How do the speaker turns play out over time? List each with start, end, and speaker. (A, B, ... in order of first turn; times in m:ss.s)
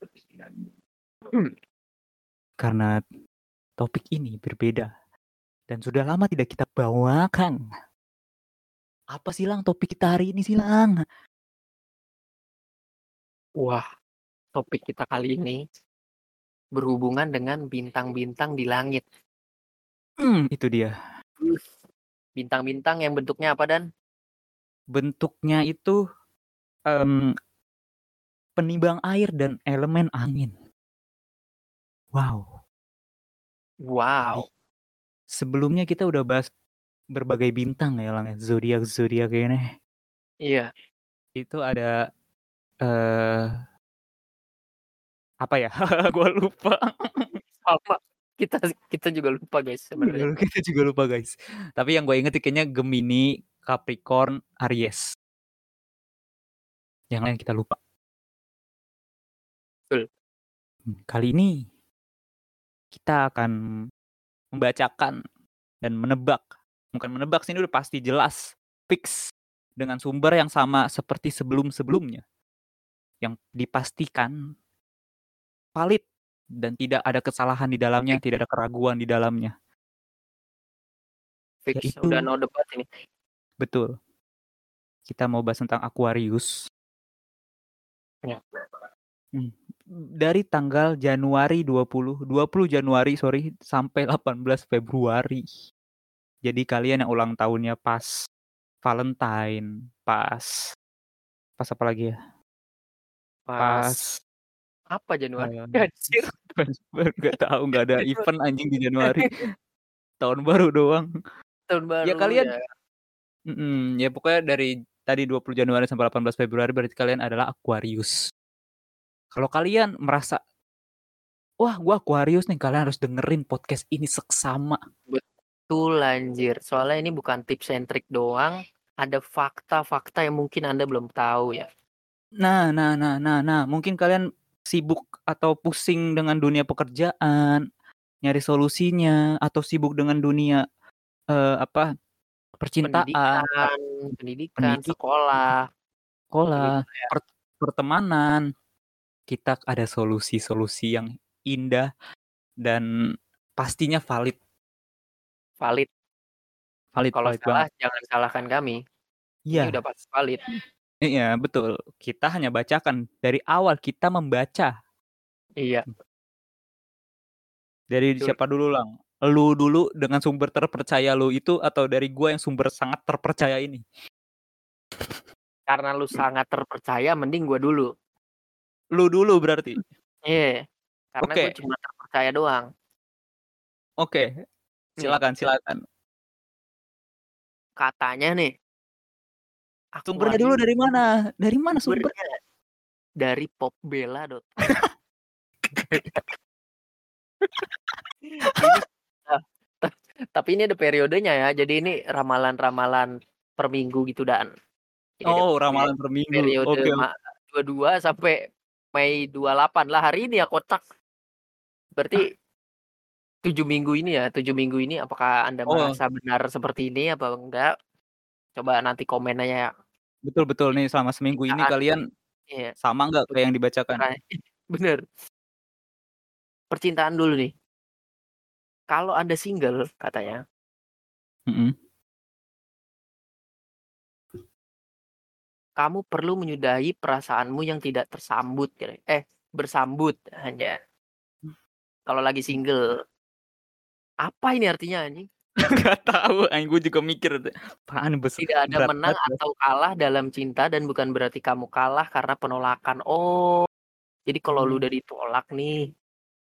0:00.4-0:00.6 A
0:02.6-0:02.9 B
0:03.8-0:04.9 B
0:05.7-0:07.6 B
0:09.1-0:11.0 B
0:14.6-0:15.6 A
0:16.8-0:19.0 A
0:20.2-0:20.9 B
0:21.4-0:21.6 A
0:22.4-0:23.8 A
0:24.9-0:26.0 B
0:26.9-0:27.3 B
0:28.6-0:30.5 B
0:32.1-0:32.5 B
0:33.9-0:34.5 A
0:35.3-0:36.5 B
0:37.1-0:39.7 B
0:41.4-0:41.9 B
0:42.8-0:43.5 B
0:45.4-0:47.4 B
0:47.4-0:50.3 A
0:50.1-0:55.0 B
0:57.1-0:57.8 B
1:01.1-1:01.5 B
1:02.9-1:03.5 B
1:04.5-1:05.2 B
1:05.8-1:09.3 B
1:09.8-1:12.2 B
1:13.2-1:14.3 B
1:15.8-1:16.0 B
1:16.6-1:19.5 B
1:21.7-1:22.9 A
1:21.8-1:22.3 B
1:23.6-1:23.9 B
1:25.1-1:26.5 B
1:28.3-1:28.6 A
1:30.2-1:35.4 B
1:36.4-1:38.1 B
1:38.8-1:40.5 B
1:41.6-1:42.1 B
1:43.5-1:44.0 A
1:43.6-1:44.0 B
1:45.0-1:46.6 A
1:45.4-1:49.3 B
1:47.7-1:48.3 A
1:50.2-1:51.1 B
1:51.7-1:52.6 A
1:52.0-1:52.5 B
1:53.5-1:58.1 B
1:59.3-2:00.4 B
2:01.6-2:04.8 B
2:05.1-2:08.5 A
2:09.0-2:11.7 A
2:12.4-2:17.6 B
2:18.2-2:20.6 B
2:21.3-2:21.9 B
2:22.6-2:23.7 B
2:22.8-2:25.6 A
2:24.6-2:25.0 B
2:26.3-2:28.4 B
2:26.6-2:27.1 A
2:29.3-2:31.9 B
2:33.6-2:34.4 B
2:35.6-2:35.9 A
2:36.9-2:37.6 B
2:37.1-2:38.8 A
2:39.5-2:39.8 B
2:39.5-2:40.4 A
2:41.0-2:44.7 B
2:45.6-2:45.9 A
2:47.9-2:53.8 B
2:55.7-2:57.9 A
2:59.0-2:59.8 B
3:00.3-3:00.6 A
3:01.2-3:02.7 A
3:01.2-3:01.5 B
3:05.0-3:05.8 B
3:07.8-3:08.5 A
3:10.0-3:10.7 A
3:10.1-3:12.1 B
3:11.8-3:12.4 A
3:13.2-3:14.8 A
3:15.8-3:16.3 A
3:18.3-3:24.5 A
3:25.2-3:28.4 A
3:25.3-3:27.0 B
3:29.0-3:30.8 A
3:32.0-3:32.3 A
3:33.4-3:37.7 A
3:35.7-3:36.0 B
3:38.6-3:39.7 A
3:40.2-3:42.0 B
3:41.4-3:41.8 A
3:42.8-3:44.0 B
3:44.0-3:45.0 A
3:46.7-3:47.5 A
3:48.9-3:50.4 A
3:51.5-3:51.7 B
3:55.8-4:00.8 A
4:02.1-4:02.8 A
4:04.3-4:05.2 A
4:05.6-4:09.4 B
4:08.4-4:13.7 A
4:14.3-4:15.8 A
4:14.5-4:14.8 B